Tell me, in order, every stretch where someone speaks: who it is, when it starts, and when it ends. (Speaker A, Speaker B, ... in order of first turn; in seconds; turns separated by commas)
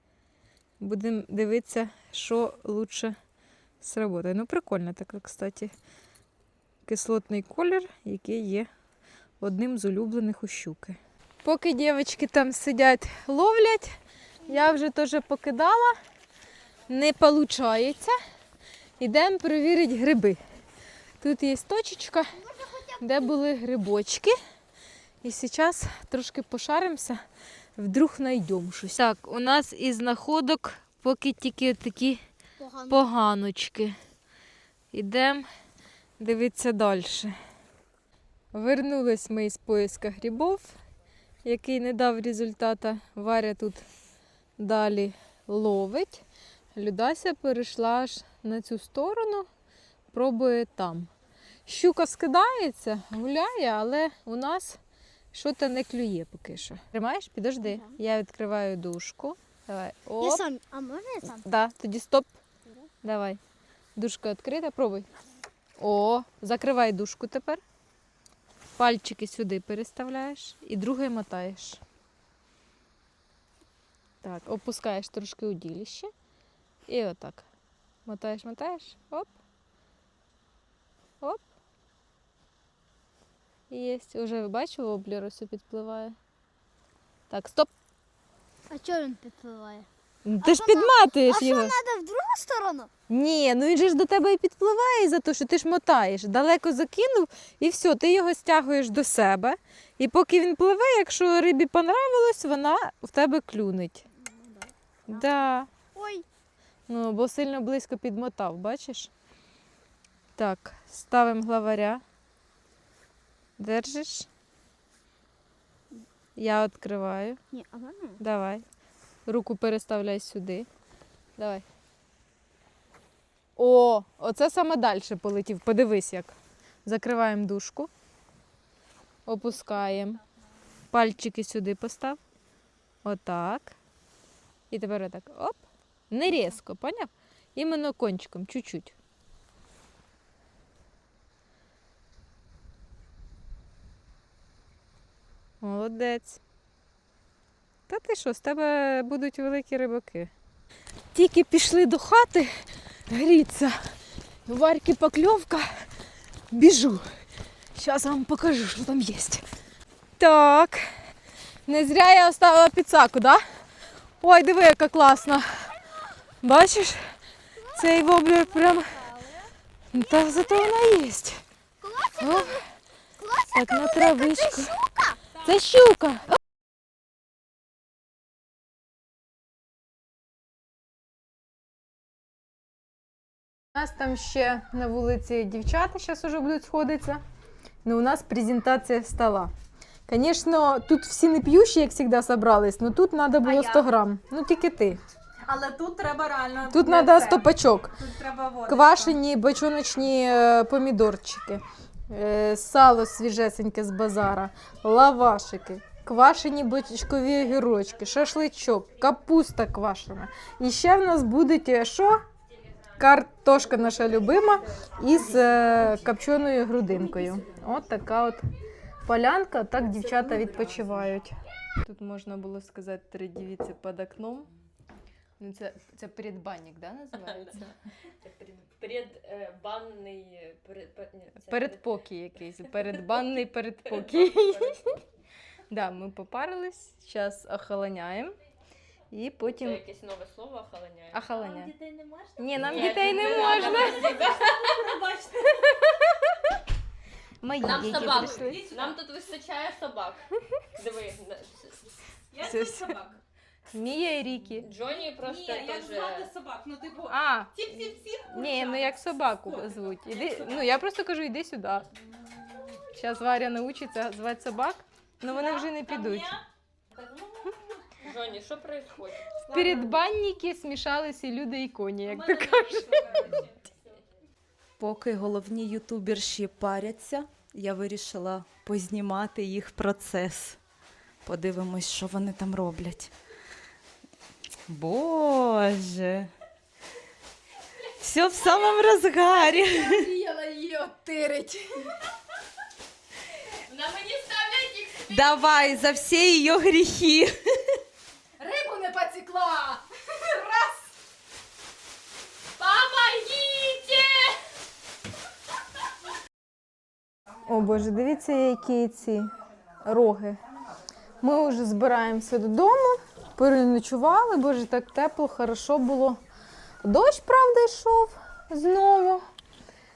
Speaker A: 0.8-3.1, Speaker A: 3.8-5.7, Speaker A: 6.8-8.7, Speaker A: 9.4-13.9, Speaker A: 14.4-16.0, Speaker A: 16.9-18.1, Speaker A: 19.0-20.4, Speaker A: 21.2-22.3, Speaker B: 22.4-23.2, Speaker A: 23.0-24.3, Speaker A: 25.2-27.2, Speaker A: 27.8-32.2, Speaker B: 32.6-33.0, Speaker A: 32.9-34.0, Speaker A: 34.9-35.5, Speaker A: 36.2-37.3, Speaker A: 38.5-40.7, Speaker A: 41.4-43.8, Speaker A: 44.6-46.2, Speaker A: 46.7-49.5, Speaker A: 50.1-51.1, Speaker A: 51.6-54.8, Speaker A: 55.3-60.4, Speaker B: 57.6-57.9, Speaker B: 60.2-61.4, Speaker A: 61.2-62.3, Speaker A: 63.0-63.4, Speaker A: 64.0-65.1, Speaker A: 65.8-67.6, Speaker A: 68.8-71.8, Speaker A: 74.2-76.1, Speaker A: 76.9-77.5, Speaker A: 78.0-79.3, Speaker A: 83.7-86.2, Speaker A: 87.3-87.7, Speaker B: 88.7-89.9, Speaker A: 90.2-91.8, Speaker B: 90.4-92.9, Speaker A: 93.1-104.0, Speaker B: 104.2-105.3, Speaker A: 105.1-105.7, Speaker B: 106.0-106.2, Speaker A: 106.9-109.1, Speaker A: 110.4-112.0, Speaker A: 113.6-114.3, Speaker A: 116.3-117.4, Speaker B: 117.5-118.2, Speaker A: 118.2-118.6, Speaker A: 119.2-120.7, Speaker A: 121.4-121.6, Speaker A: 123.6-127.9, Speaker A: 129.2-130.2, Speaker A: 130.9-132.2, Speaker A: 133.0-133.8, Speaker A: 134.7-138.9, Speaker A: 145.6-146.4, Speaker A: 147.9-150.3, Speaker A: 151.1-152.5, Speaker A: 153.1-153.8, Speaker A: 154.4-155.9, Speaker A: 156.5-157.1, Speaker A: 157.8-159.4, Speaker A: 160.2-160.8, Speaker A: 161.7-163.4, Speaker A: 164.2-165.7, Speaker A: 166.4-167.0, Speaker A: 167.7-169.1, Speaker A: 169.9-171.4, Speaker B: 171.8-172.6, Speaker A: 172.2-172.6, Speaker B: 173.2-175.2, Speaker A: 173.5-174.8, Speaker A: 175.3-176.4, Speaker A: 183.7-187.2, Speaker A: 187.8-189.5, Speaker A: 190.1-195.0, Speaker C: 195.4-197.4, Speaker A: 196.7-198.0, Speaker C: 198.0-199.1, Speaker A: 198.6-212.2, Speaker A: 213.0-218.4, Speaker A: 219.0-224.5, Speaker A: 225.4-227.7, Speaker D: 227.3-231.9, Speaker A: 231.4-234.9, Speaker D: 233.8-234.8, Speaker A: 235.7-238.3, Speaker A: 239.1-239.8, Speaker D: 239.6-241.2, Speaker A: 241.1-241.7, Speaker C: 241.4-244.9, Speaker A: 242.4-244.2, Speaker D: 242.6-245.2, Speaker A: 245.4-246.3, Speaker A: 247.4-248.7, Speaker D: 247.6-251.9, Speaker C: 247.9-248.9, Speaker C: 252.3-253.2, Speaker A: 252.4-253.0, Speaker A: 253.7-254.7, Speaker D: 254.6-256.3, Speaker C: 255.1-258.9, Speaker A: 257.1-261.9, Speaker C: 259.5-259.7, Speaker D: 260.1-260.7, Speaker A: 262.9-266.4, Speaker C: 265.3-266.4, Speaker D: 268.0-269.4, Speaker A: 269.5-273.3, Speaker C: 269.5-269.9, Speaker C: 272.2-273.3, Speaker D: 273.0-273.4, Speaker E: 274.8-280.6, Speaker E: 281.2-283.1, Speaker E: 284.7-286.3, Speaker E: 288.0-290.1, Speaker A: 289.7-291.9, Speaker D: 293.7-295.9, Speaker E: 295.1-297.4, Speaker A: 298.4-299.8, Speaker A: 300.4-300.6, Speaker D: 302.6-304.4, Speaker A: 307.5-309.3, Speaker A: 309.8-310.4, Speaker A: 311.2-316.2, Speaker A: 316.8-319.2